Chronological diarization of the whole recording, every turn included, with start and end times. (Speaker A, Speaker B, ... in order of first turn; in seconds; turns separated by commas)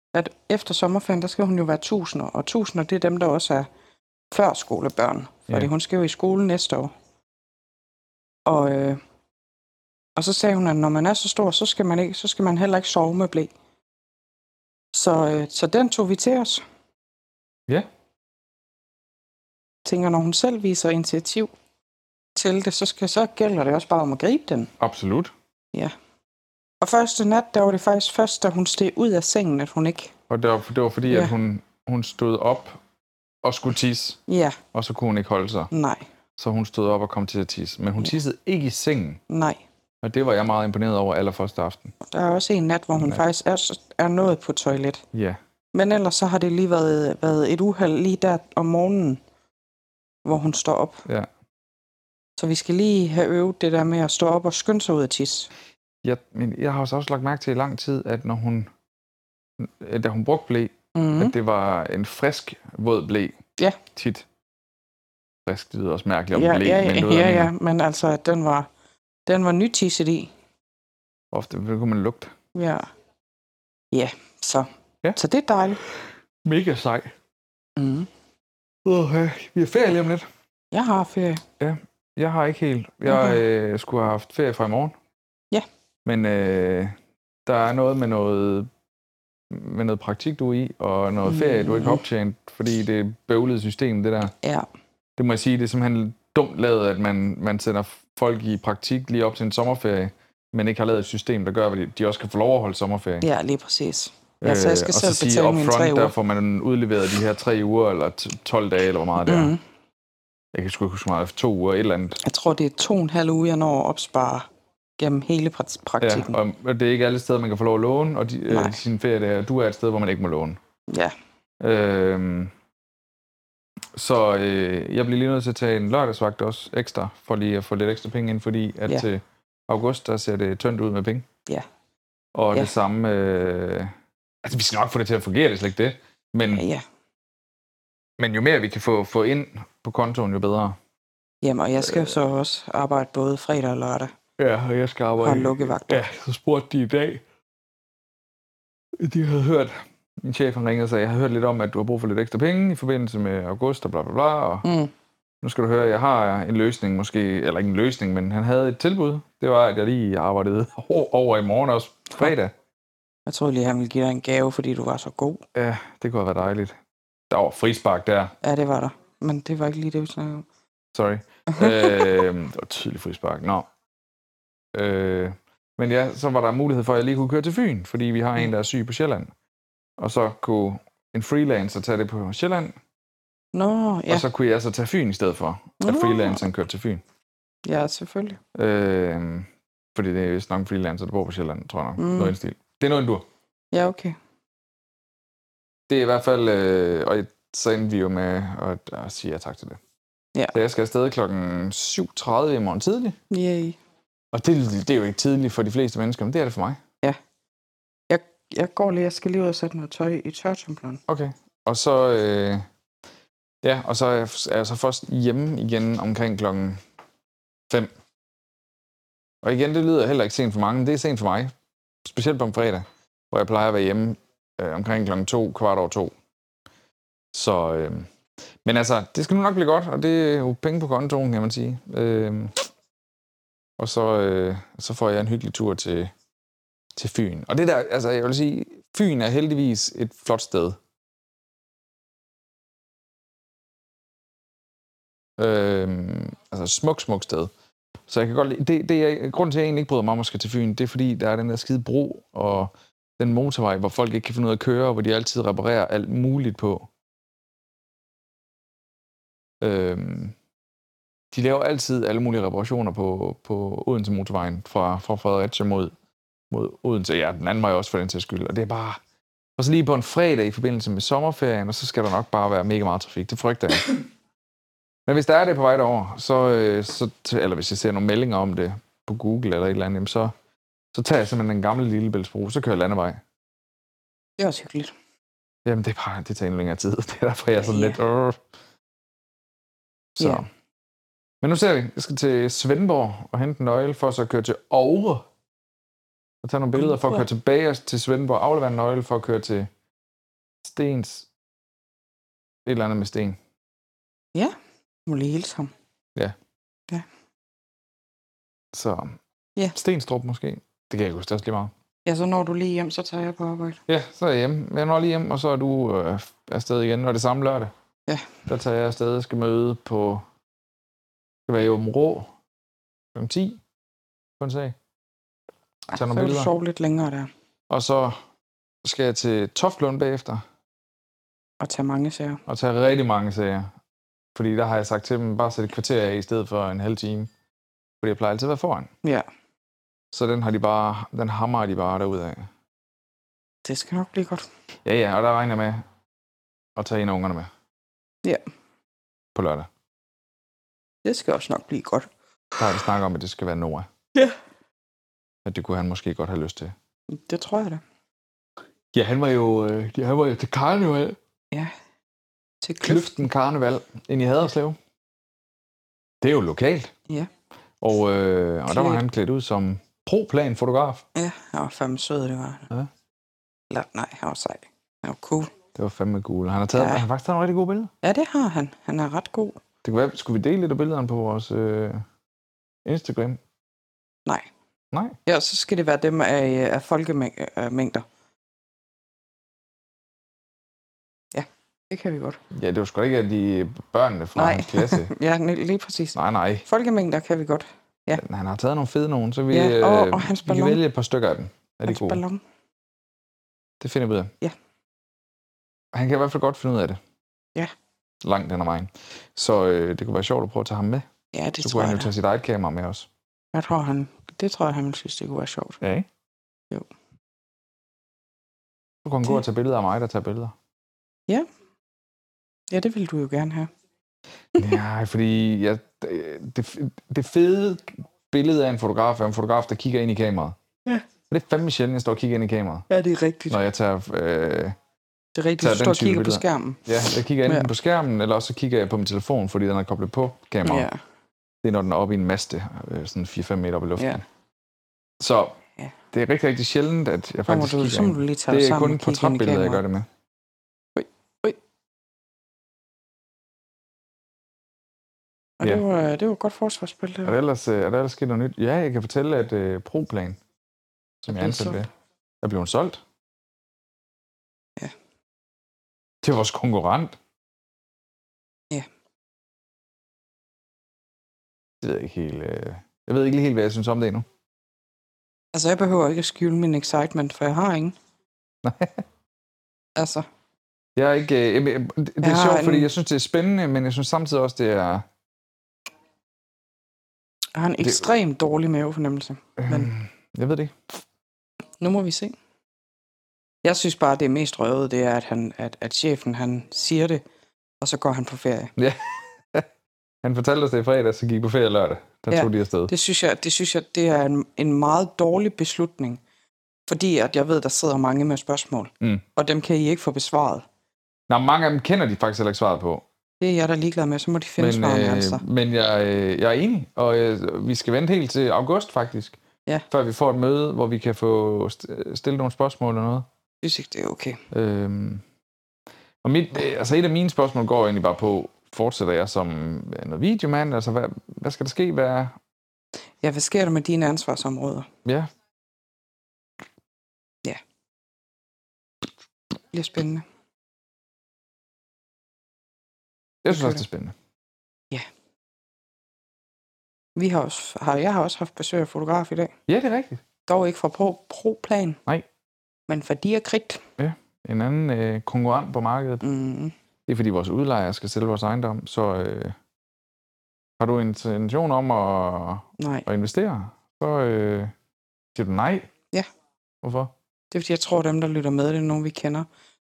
Speaker A: 0.1-3.7, Speaker A: 4.3-6.9, Speaker A: 8.5-9.0, Speaker A: 10.2-13.5, Speaker A: 14.9-16.6, Speaker A: 19.9-21.5, Speaker A: 22.4-24.7, Speaker B: 24.8-25.3, Speaker A: 26.8-30.1, Speaker B: 30.3-32.8, Speaker A: 31.1-31.3, Speaker B: 33.4-34.2, Speaker A: 34.3-34.6, Speaker B: 34.7-35.7, Speaker A: 35.7-36.1, Speaker B: 36.4-39.2, Speaker A: 39.3-39.6, Speaker B: 40.0-41.9, Speaker A: 42.1-45.0, Speaker B: 45.1-45.4, Speaker A: 45.7-49.2, Speaker A: 50.2-51.0, Speaker A: 52.4-55.5, Speaker B: 56.0-58.7, Speaker B: 59.6-64.3, Speaker A: 61.0-61.3, Speaker B: 65.5-67.5, Speaker A: 66.3-68.7, Speaker A: 69.3-70.3, Speaker B: 71.3-72.3, Speaker A: 72.5-72.9, Speaker A: 73.9-75.8, Speaker B: 76.5-77.1, Speaker A: 77.8-78.1, Speaker B: 78.8-80.3, Speaker A: 80.7-81.4, Speaker B: 81.6-85.0, Speaker A: 83.1-83.4, Speaker B: 86.0-88.7, Speaker B: 89.5-94.3, Speaker A: 91.2-92.0, Speaker A: 94.4-94.7, Speaker B: 95.2-103.3, Speaker A: 103.2-106.1, Speaker B: 104.4-109.5, Speaker A: 109.2-109.6, Speaker B: 110.5-112.2, Speaker A: 112.2-116.4, Speaker B: 116.0-120.6, Speaker A: 118.5-118.8, Speaker A: 120.9-121.1, Speaker B: 121.6-122.5, Speaker B: 123.9-131.3, Speaker B: 132.3-136.7, Speaker A: 136.5-136.8, Speaker B: 138.2-140.8, Speaker A: 141.4-144.1, Speaker B: 141.8-142.1, Speaker B: 144.4-147.2, Speaker A: 145.2-146.0, Speaker B: 149.0-154.7, Speaker A: 154.6-154.9, Speaker B: 155.4-162.5, Speaker A: 163.3-165.4, Speaker B: 165.6-166.8, Speaker B: 167.3-168.3, Speaker A: 168.4-170.5, Speaker B: 170.9-173.7, Speaker A: 171.5-172.2, Speaker B: 174.7-179.3, Speaker B: 180.0-182.8, Speaker A: 183.5-184.2, Speaker B: 184.1-187.0, Speaker A: 185.8-186.5, Speaker A: 187.7-188.4, Speaker B: 188.5-193.3, Speaker A: 192.0-192.3, Speaker A: 193.7-194.2, Speaker B: 195.9-199.8, Speaker B: 200.5-203.2, Speaker A: 203.3-203.8, Speaker B: 204.3-206.8, Speaker A: 208.1-211.0, Speaker B: 211.1-212.7, Speaker B: 213.6-216.8, Speaker B: 219.4-221.5, Speaker B: 222.0-226.1, Speaker B: 227.3-228.1, Speaker B: 228.6-232.7, Speaker B: 233.8-236.1, Speaker B: 236.9-240.8, Speaker B: 245.4-247.5, Speaker B: 248.1-256.9, Speaker B: 259.6-260.4, Speaker B: 261.3-265.9, Speaker B: 266.5-269.0, Speaker B: 269.6-273.9, Speaker B: 275.1-280.3, Speaker B: 280.9-283.2, Speaker A: 284.4-284.9, Speaker B: 285.6-288.4, Speaker A: 287.6-288.0, Speaker B: 290.2-290.5, Speaker A: 290.2-290.4, Speaker B: 291.4-295.3, Speaker B: 296.4-299.7, Speaker A: 296.8-297.2, Speaker B: 300.6-301.3, Speaker B: 302.6-303.4, Speaker A: 305.1-305.7, Speaker B: 308.7-309.2, Speaker B: 309.8-311.7, Speaker A: 312.1-313.8, Speaker B: 313.9-317.7, Speaker A: 318.1-318.4, Speaker B: 318.5-320.3, Speaker B: 321.5-322.3, Speaker B: 323.1-323.6, Speaker B: 324.4-324.8, Speaker A: 325.9-327.3, Speaker B: 325.9-326.5, Speaker B: 327.7-328.2, Speaker B: 328.8-330.4, Speaker A: 331.6-332.4, Speaker B: 332.5-333.7, Speaker B: 334.4-337.3, Speaker B: 338.0-338.9, Speaker B: 340.1-342.5, Speaker A: 343.6-344.5, Speaker B: 344.9-345.9, Speaker B: 346.8-347.5, Speaker B: 349.4-349.7, Speaker A: 351.1-352.1, Speaker B: 352.6-353.9, Speaker B: 355.4-356.7, Speaker A: 357.1-357.8, Speaker B: 358.9-361.2, Speaker A: 362.6-363.3, Speaker B: 362.8-364.8, Speaker B: 366.2-366.9, Speaker B: 367.8-371.1, Speaker A: 368.7-369.0, Speaker A: 371.1-372.7, Speaker A: 373.7-375.5, Speaker B: 375.8-377.9, Speaker A: 376.8-377.0, Speaker A: 378.0-379.6, Speaker B: 379.8-382.1, Speaker B: 382.9-383.4, Speaker B: 384.9-385.2, Speaker A: 385.3-388.1, Speaker A: 391.3-392.4, Speaker B: 392.5-395.1, Speaker A: 394.4-398.2, Speaker B: 396.1-396.6, Speaker B: 398.2-402.2, Speaker A: 399.5-400.8, Speaker A: 401.9-402.4, Speaker B: 403.8-404.3, Speaker B: 405.9-407.0, Speaker B: 408.2-411.1, Speaker A: 411.3-412.1, Speaker B: 411.6-413.1, Speaker A: 413.5-415.8, Speaker B: 415.8-416.1, Speaker B: 419.0-420.6, Speaker A: 422.7-423.7, Speaker B: 424.6-430.6, Speaker B: 431.3-432.9, Speaker A: 432.9-433.6, Speaker B: 433.5-434.8, Speaker A: 435.4-436.8, Speaker B: 435.6-440.9, Speaker A: 440.6-441.0, Speaker B: 441.6-444.2, Speaker B: 445.2-445.6, Speaker B: 446.1-450.1, Speaker A: 447.5-449.8, Speaker A: 451.0-451.6, Speaker A: 455.6-457.4, Speaker B: 457.2-460.4, Speaker B: 461.2-461.9, Speaker A: 461.3-461.8, Speaker B: 462.4-463.0, Speaker B: 466.2-467.2, Speaker B: 471.8-474.3, Speaker A: 475.5-478.0, Speaker B: 478.6-479.0, Speaker A: 480.0-480.3, Speaker B: 481.0-485.1, Speaker A: 482.2-482.9, Speaker A: 487.6-489.9, Speaker B: 489.6-490.8, Speaker A: 491.8-492.4, Speaker A: 493.6-497.2, Speaker A: 497.8-498.7, Speaker B: 498.8-499.7, Speaker B: 500.2-502.9, Speaker A: 502.3-506.2, Speaker A: 506.9-510.7, Speaker B: 511.3-513.0, Speaker A: 513.4-515.4, Speaker B: 514.6-519.4, Speaker B: 519.9-523.3, Speaker A: 523.6-524.4, Speaker B: 524.5-525.2, Speaker B: 526.2-532.4, Speaker A: 533.2-534.9, Speaker A: 539.7-540.3, Speaker B: 543.4-544.2, Speaker A: 543.5-543.8, Speaker A: 547.2-549.5, Speaker B: 549.7-550.2, Speaker A: 550.5-552.0, Speaker A: 552.9-553.8, Speaker B: 554.0-556.2, Speaker A: 556.2-556.7, Speaker B: 557.1-559.6, Speaker B: 560.8-564.7, Speaker A: 562.8-563.1, Speaker B: 565.4-565.9, Speaker B: 566.8-567.1, Speaker A: 567.5-569.5